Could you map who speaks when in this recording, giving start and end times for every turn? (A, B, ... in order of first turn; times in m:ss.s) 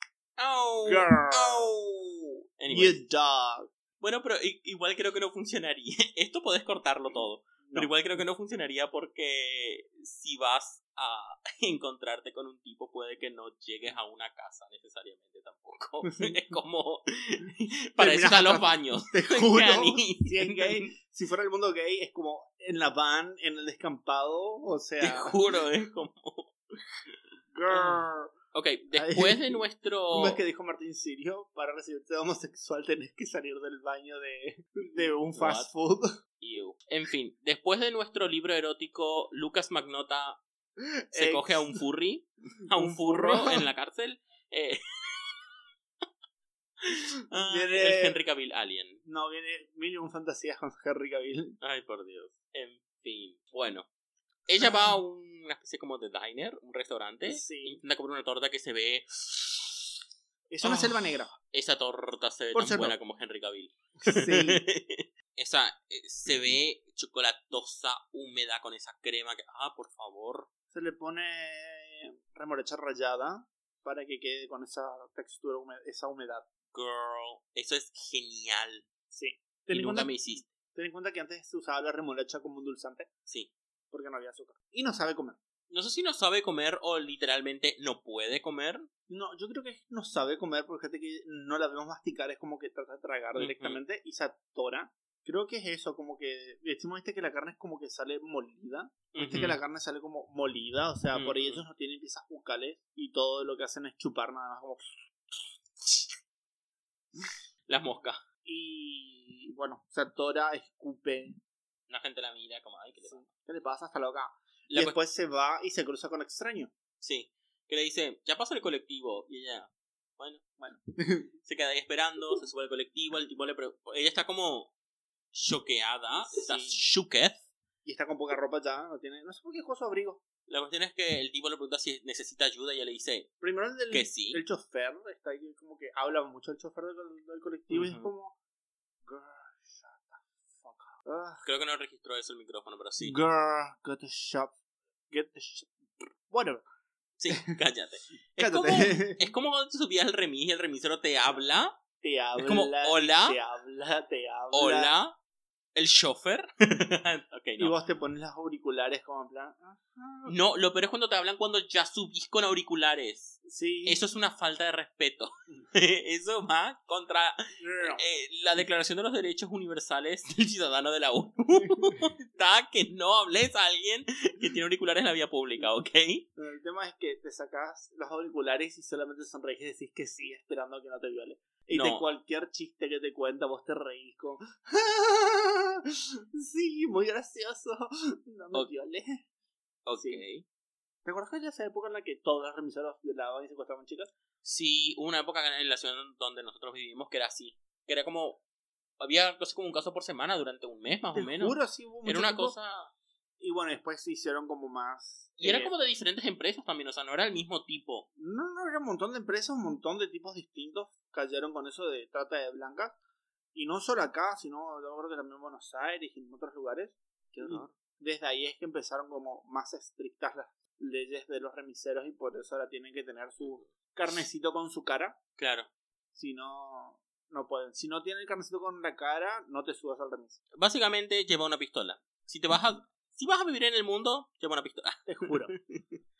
0:00.4-0:03.0 A
0:00.8-0:01.7 B
0:02.7-0:03.7 B
0:04.0-0:20.9 A
0:07.6-0:07.9 B
0:16.0-0:16.3 B
0:18.0-0:25.4 B
0:25.0-0:26.5 A
0:27.5-0:28.3 B
0:27.7-0:30.4 A
0:28.9-0:36.1 B
0:35.3-0:35.7 A
0:36.4-0:40.4 A
0:40.8-0:41.8 B
0:41.1-0:45.5 A
0:42.8-0:43.7 B
0:46.8-0:49.0 A
0:47.4-0:48.2 B
0:49.0-0:51.6 B
0:51.6-0:53.9 A
0:54.5-0:59.7 A
0:54.6-0:54.9 B
0:57.3-0:57.8 B
1:00.5-1:01.3 B
1:00.6-1:10.5 A
1:02.5-1:03.0 B
1:04.0-1:04.6 B
1:10.7-1:16.5 B
1:16.7-1:18.8 A
1:19.1-1:23.1 B
1:19.7-1:20.5 A
1:23.9-1:25.4 B
1:25.7-1:28.9 A
1:29.1-1:44.8 B
1:33.4-1:33.8 A
1:39.1-1:39.6 A
1:41.1-1:41.6 A
1:47.7-1:48.2 A
1:48.4-1:51.4 B
1:51.9-1:53.2 A
1:53.0-1:56.7 B
1:54.7-1:55.0 A
1:57.0-2:00.4 A
2:00.6-2:01.3 B
2:01.4-2:04.7 A
2:05.3-2:07.4 A
2:06.2-2:06.8 B
2:07.8-2:10.2 B
2:10.5-2:13.3 A
2:13.4-2:18.3 B
2:13.9-2:14.4 A
2:17.7-2:18.1 A
2:19.0-2:21.4 B
2:21.4-2:23.2 A
2:23.0-2:24.6 B
2:25.1-2:26.6 B
2:27.2-2:31.8 A
2:27.3-2:27.6 B
2:28.4-2:29.2 B
2:32.0-2:34.9 B
2:32.4-2:33.4 A
2:34.5-2:35.2 A
2:35.7-2:37.7 A
2:37.6-2:40.3 B
2:40.2-2:56.2 A
2:43.4-2:44.0 B
2:47.6-2:48.0 B
2:56.4-3:09.2 B
3:01.7-3:02.0 A
3:09.8-3:10.4 A
3:09.9-3:10.2 B
3:11.0-3:14.1 B
3:14.4-3:18.4 A
3:19.0-3:22.9 A
3:21.1-3:22.5 B
3:23.4-3:25.7 B
3:25.4-3:28.1 A
3:28.2-3:33.0 B
3:33.5-3:45.2 B
3:37.3-3:37.7 A
3:43.4-3:43.7 A
3:45.4-3:45.7 A
3:46.1-3:50.4 B
3:50.5-3:55.8 A
3:55.0-3:55.5 B